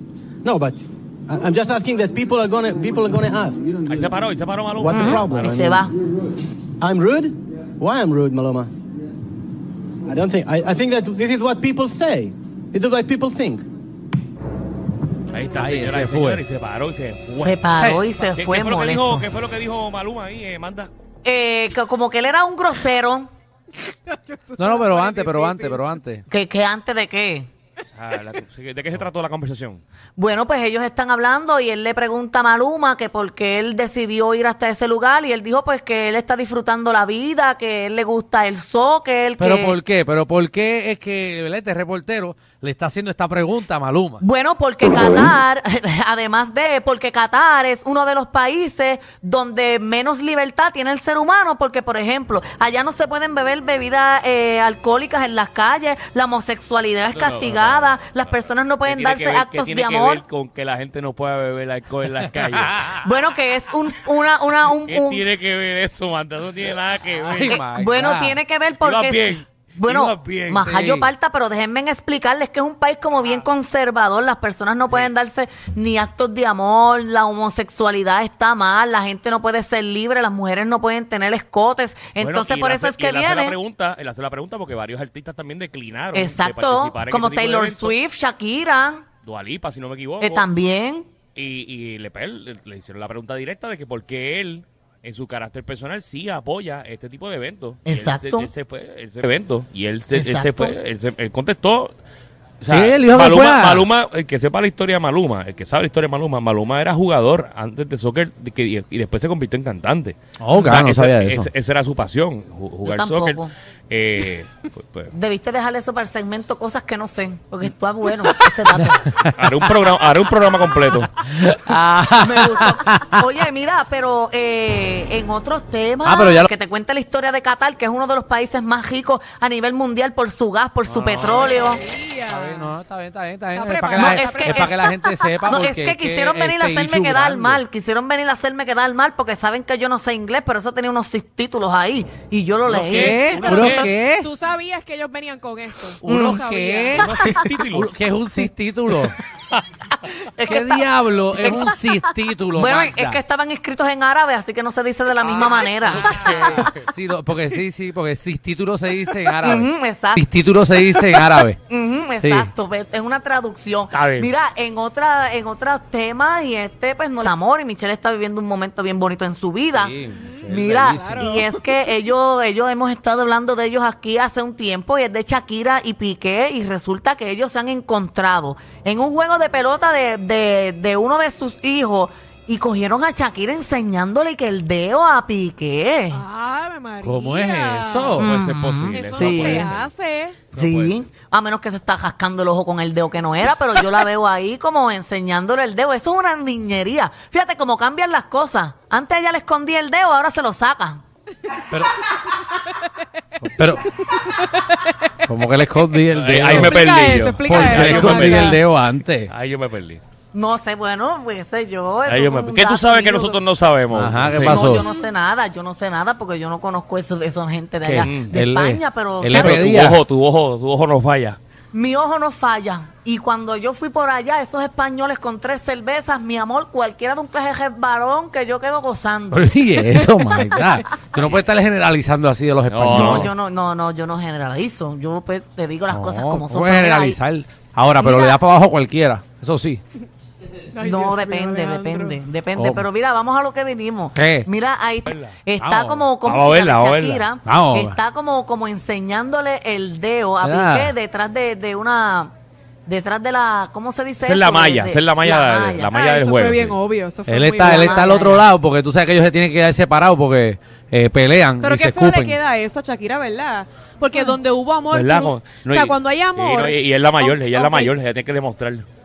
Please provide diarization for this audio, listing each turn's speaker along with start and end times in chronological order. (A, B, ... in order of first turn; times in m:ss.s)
0:00.4-0:03.8 A
0:03.9-0:05.3 B
0:04.8-0:05.8 A
0:04.9-0:05.9 C
0:06.8-0:08.7 A
0:10.1-0:13.6 A
0:15.3-0:20.9 B
0:15.6-0:16.4 D
0:17.3-0:19.3 C
0:21.2-0:23.3 C
0:24.0-0:25.8 E
0:24.6-0:26.2 D
0:26.3-0:27.5 C
0:27.9-0:29.8 B
0:30.2-0:39.8 C
0:39.4-0:44.2 D
0:44.2-1:00.2 C
0:57.0-1:03.0 B
1:02.9-1:05.3 C
1:04.8-1:07.6 B
1:07.1-1:08.4 D
1:07.5-1:23.6 C
1:08.8-1:10.6 B
1:10.6-1:11.1 D
1:22.2-1:28.0 B
1:26.1-1:29.0 C
1:29.2-1:30.4 B
1:30.2-1:31.1 C
1:31.3-1:41.9 B
1:37.8-1:38.5 C
1:40.1-1:40.8 C
1:42.6-1:55.1 B
1:42.6-1:43.9 D
1:50.4-1:51.5 D
1:52.8-1:53.5 C
1:55.1-1:59.0 C
1:59.4-2:01.1 B
2:01.2-2:03.2 D
2:02.2-2:11.8 C
2:06.0-2:06.5 D
2:10.9-2:11.5 D
2:11.3-2:12.7 E
2:12.3-2:17.6 D
2:13.5-2:14.8 E
2:13.9-2:23.8 C
2:22.6-2:23.9 B
2:22.8-2:24.3 D
2:23.0-2:27.1 E
2:26.0-2:29.1 D
2:26.1-2:26.4 C
2:27.0-2:28.0 B
2:27.1-2:27.4 C
2:30.2-2:36.7 C
2:30.4-2:33.2 D
2:35.3-2:36.8 B
2:35.9-2:41.6 D
2:39.4-2:40.2 C
2:41.0-2:50.0 C
2:42.2-2:42.5 D
2:43.9-2:44.3 B
2:49.7-2:51.5 D
2:50.2-2:51.4 E
2:50.5-3:06.2 C
3:06.1-3:08.3 E
3:07.0-3:08.2 D
3:08.2-3:09.7 C
3:08.2-3:09.9 B
3:08.9-3:10.5 E
3:10.5-3:11.0 B
3:10.5-3:21.0 C
3:23.4-3:23.9 D
3:24.0-3:25.1 E
3:25.2-3:26.8 D
3:26.1-3:28.6 B
3:26.5-3:28.6 E
3:27.4-3:29.3 D
3:29.3-3:30.0 B
3:30.3-3:33.4 C
3:32.0-3:34.7 B
3:33.9-3:34.8 D
3:34.4-3:39.6 C
3:34.8-3:35.1 E
3:37.8-3:40.0 D
3:38.0-3:38.3 B
3:39.3-3:41.4 B
3:41.7-3:50.6 C
3:49.3-3:53.3 D
3:52.7-3:53.3 B
3:52.9-3:57.2 C
3:55.9-3:59.8 D
3:58.0-3:58.4 C
4:00.7-4:02.2 E
4:00.8-4:12.3 C
4:02.6-4:02.8 D
4:04.1-4:04.5 D
4:05.0-4:05.4 B
4:05.6-4:06.1 D
4:06.2-4:07.3 B
4:07.4-4:08.0 D
4:10.4-4:10.9 D
4:12.9-4:15.9 C
4:14.2-4:16.8 B
4:15.9-4:18.3 E
4:17.3-4:22.4 D
4:17.6-4:18.5 C
4:21.6-4:27.9 E
4:24.9-4:28.8 B